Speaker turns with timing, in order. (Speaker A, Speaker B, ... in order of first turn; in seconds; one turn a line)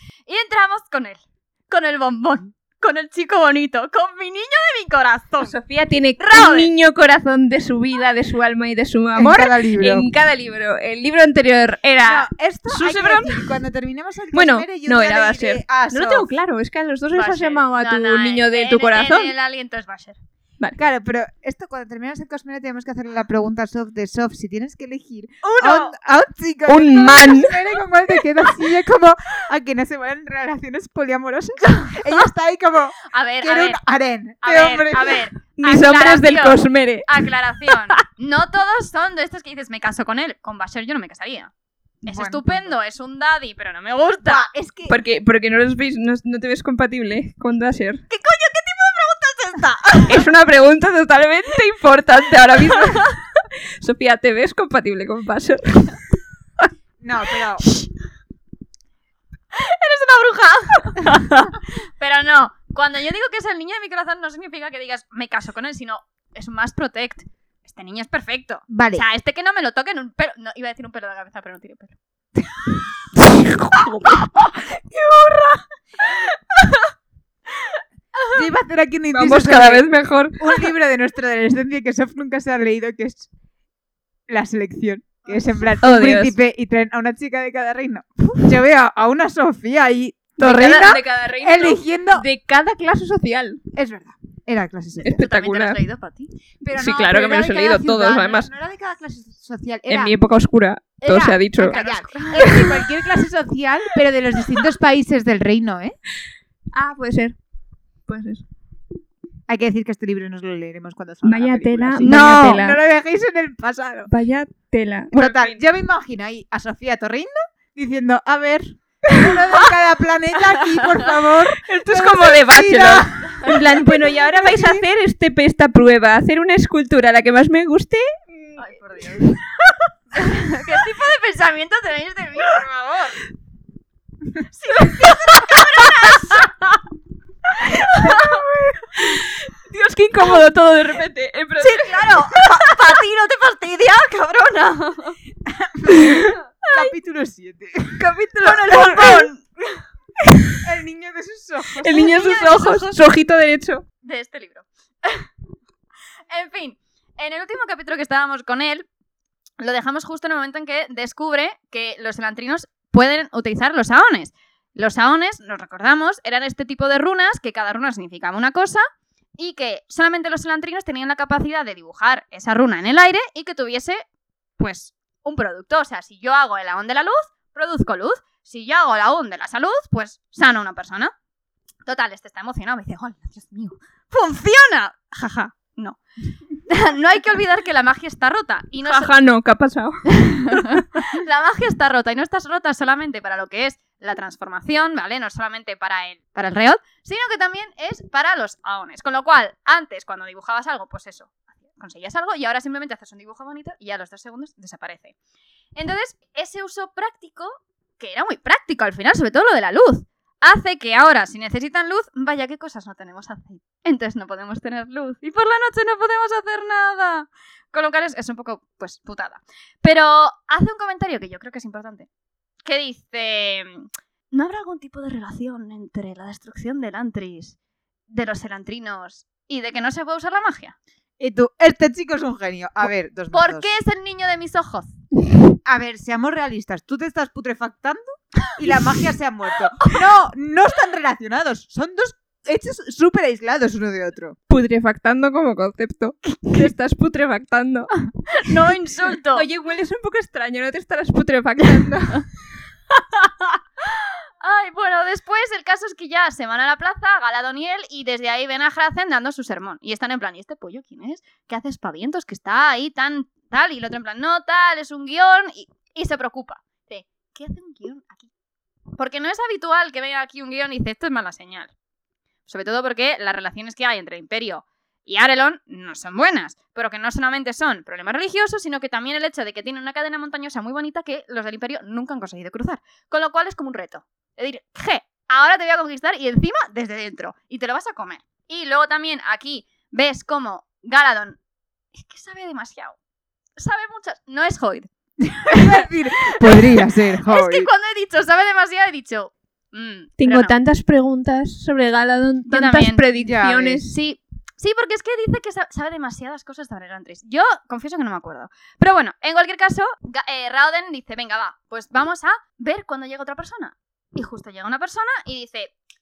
Speaker A: 0.3-5.5
Speaker B: 5.4-13.5
Speaker A: 6.2-6.7
Speaker C: 9.1-10.1
Speaker C: 12.0-16.3
Speaker B: 14.3-19.3
Speaker A: 17.1-20.2
Speaker C: 20.8-35.2
Speaker A: 25.4-25.9
Speaker B: 26.7-27.8
Speaker A: 31.8-32.3
Speaker A: 33.0-33.8
Speaker A: 34.4-41.5
Speaker B: 35.5-38.0
Speaker A: 42.0-44.5
Speaker C: 42.0-42.7
Speaker C: 44.2-45.0
Speaker B: 44.9-48.0
Speaker A: 48.1-50.2
Speaker B: 50.1-56.0
Speaker A: 52.7-53.1
Speaker C: 57.0-57.6
Speaker A: 57.6-57.9
Speaker A: 59.5-72.0
Speaker C: 68.7-69.0
Speaker B: 73.2-74.3
Speaker C: 78.3-79.9
Speaker B: 79.1-80.5
Speaker C: 80.4-83.3
Speaker C: 84.3-92.2
Speaker A: 85.2-85.6
Speaker B: 85.8-86.3
Speaker B: 90.4-93.6
Speaker C: 93.7-95.2
Speaker B: 95.0-95.8
Speaker A: 95.1-96.3
Speaker C: 96.6-100.1
Speaker B: 96.7-98.5
Speaker B: 99.9-101.8
Speaker C: 101.0-106.0
Speaker A: 101.5-102.6
Speaker B: 102.3-102.9
Speaker B: 106.7-107.3
Speaker B: 108.1-108.4
Speaker C: 109.5-114.1
Speaker B: 111.2-112.8
Speaker A: 112.0-112.5
Speaker B: 114.1-115.6
Speaker C: 115.1-124.8
Speaker B: 119.1-119.7
Speaker B: 121.6-129.4
Speaker A: 128.6-129.4
Speaker A: 130.1-133.2
Speaker A: 134.5-136.5
Speaker B: 137.8-142.5
Speaker A: 137.8-138.4
Speaker A: 141.6-145.2
Speaker C: 145.4-148.0
Speaker B: 145.9-146.9
Speaker B: 148.0-149.3
Speaker A: 148.4-149.8
Speaker B: 150.2-150.6
Speaker C: 150.6-152.0
Speaker B: 151.8-153.8
Speaker A: 151.9-153.0
Speaker A: 154.0-155.2
Speaker A: 156.3-158.9
Speaker A: 159.6-168.8
Speaker A: 169.4-174.0
Speaker A: 174.6-181.1
Speaker A: 181.8-186.0
Speaker A: 186.6-189.1
Speaker B: 188.8-191.0
Speaker A: 190.1-205.1
Speaker A: 205.7-222.1
Speaker A: 222.6-227.6
Speaker A: 228.1-230.8
Speaker C: 231.2-233.7
Speaker A: 233.3-234.9
Speaker C: 235.6-244.3
Speaker B: 244.5-248.5
Speaker A: 248.3-249.4
Speaker B: 249.3-252.3
Speaker A: 253.9-268.3
Speaker A: 268.9-271.7
Speaker A: 272.5-291.4
Speaker A: 291.9-293.0
Speaker A: 293.6-294.9
Speaker C: 295.2-297.7
Speaker A: 295.5-300.5
Speaker B: 300.2-303.9
Speaker A: 302.5-303.0
Speaker C: 303.2-303.8
Speaker A: 303.8-315.7